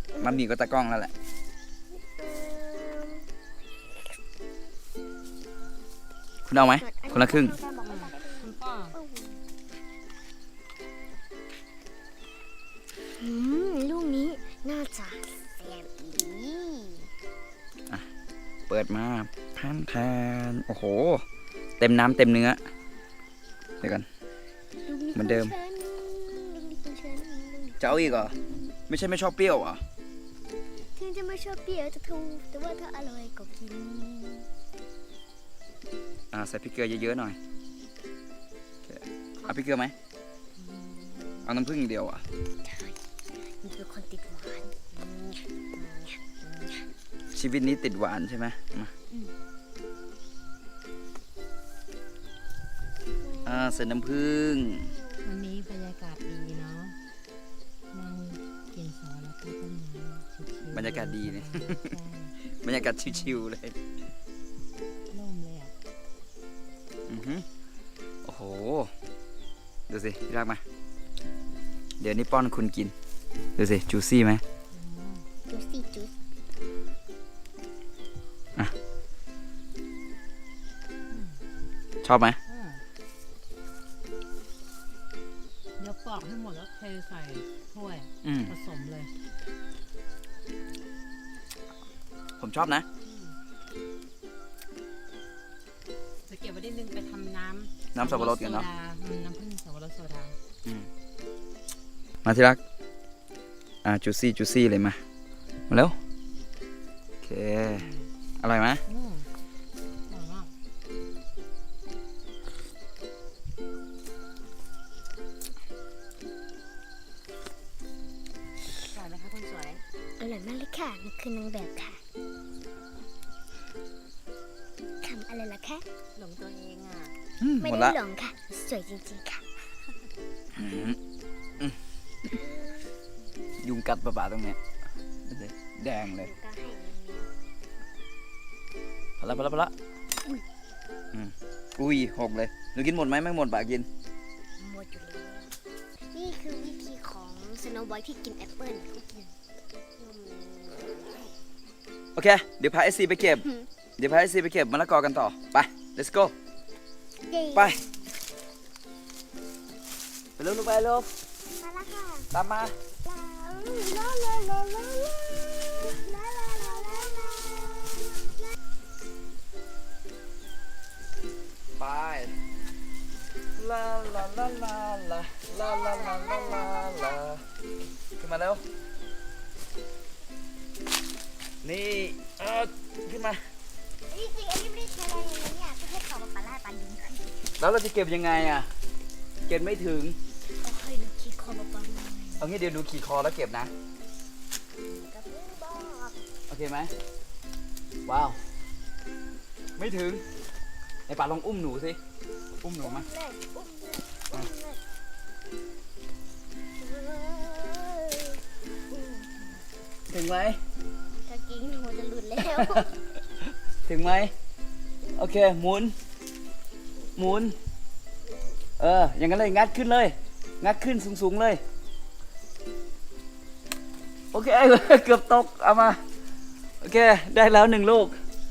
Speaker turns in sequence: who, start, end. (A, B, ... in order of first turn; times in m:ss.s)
0:00.1-0:00.4 A
0:00.2-0:01.1 B
0:01.9-0:03.3 A
0:06.4-0:07.6 B
0:06.8-0:09.4 A
0:07.8-0:08.9 C
0:13.1-0:17.1 A
0:18.7-0:21.2 B
0:21.8-0:22.6 B
0:23.8-0:24.1 B
0:24.8-0:28.7 A
0:25.1-0:25.5 B
0:27.8-0:28.3 B
0:28.9-0:29.8 B
0:30.9-0:34.5 A
0:36.3-0:37.4 B
0:38.8-0:39.9 B
0:40.6-0:41.3 C
0:41.4-0:42.2 B
0:42.6-0:46.9 A
0:47.3-0:48.9 B
0:53.2-0:55.2 A
0:53.4-0:54.9 B
0:55.2-0:57.0 C
0:57.9-1:02.4 C
1:00.7-1:01.9 B
1:02.6-1:03.7 B
1:02.9-1:03.4 C
1:05.1-1:05.7 C
1:07.1-1:07.4 B
1:08.2-1:08.9 B
1:09.9-1:10.6 B
1:12.0-1:12.9 B
1:13.6-1:14.4 B
1:14.7-1:15.2 C
1:15.5-1:16.1 A
1:21.1-1:21.4 C
1:22.0-1:22.4 B
1:22.5-1:22.8 C
1:25.8-1:29.1 C
1:28.2-1:28.5 B
1:32.4-1:32.8 B
1:33.0-1:33.4 C
1:36.3-1:40.4 C
1:37.9-1:38.7 B
1:42.2-1:42.6 B
1:43.8-1:45.0 B
1:45.7-1:46.0 B
1:47.2-1:47.9 B
1:47.7-1:48.0 C
1:48.4-1:48.8 B
1:48.9-1:49.3 C
1:50.1-1:50.5 C
1:58.9-1:59.8 C
2:00.2-2:02.0 A
2:05.0-2:05.8 A
2:06.2-2:07.2 C
2:07.4-2:08.0 B
2:07.6-2:09.4 A
2:10.5-2:11.0 B
2:12.3-2:12.9 A
2:13.6-2:14.6 B
2:15.3-2:16.3 B
2:15.8-2:17.3 A
2:19.2-2:19.7 B
2:21.1-2:23.9 B
2:24.6-2:25.5 A
2:26.1-2:29.3 A
2:30.0-2:31.3 A
2:32.1-2:33.4 B
2:33.3-2:33.6 A
2:34.0-2:36.3 B
2:37.3-2:38.0 A
2:37.5-2:37.8 B
2:40.4-2:41.1 B
2:41.6-2:42.3 A
2:42.3-2:42.7 B
2:43.0-2:48.4 A
2:51.8-2:52.3 B
2:53.6-2:57.4 B
2:55.5-2:57.2 A
2:58.2-2:58.6 B
3:01.6-3:03.4 B
3:04.1-3:07.5 A
3:07.6-3:08.7 B
3:09.5-3:10.2 B
3:10.6-3:12.5 A
3:12.4-3:13.7 B
3:14.8-3:16.2 A
3:16.5-3:16.9 B
3:18.0-3:18.4 B
3:19.8-3:20.2 B
3:21.1-3:22.0 B
3:22.6-3:23.0 B
3:22.8-3:24.8 A
3:26.8-3:29.6 A
3:30.1-3:30.6 B
3:31.2-3:33.0 A
3:33.8-3:34.3 B
3:35.2-3:35.9 B
3:37.2-3:37.6 B
3:38.3-3:38.6 A
3:38.8-3:41.6 B
3:44.3-3:46.0 B
3:46.8-3:48.2 B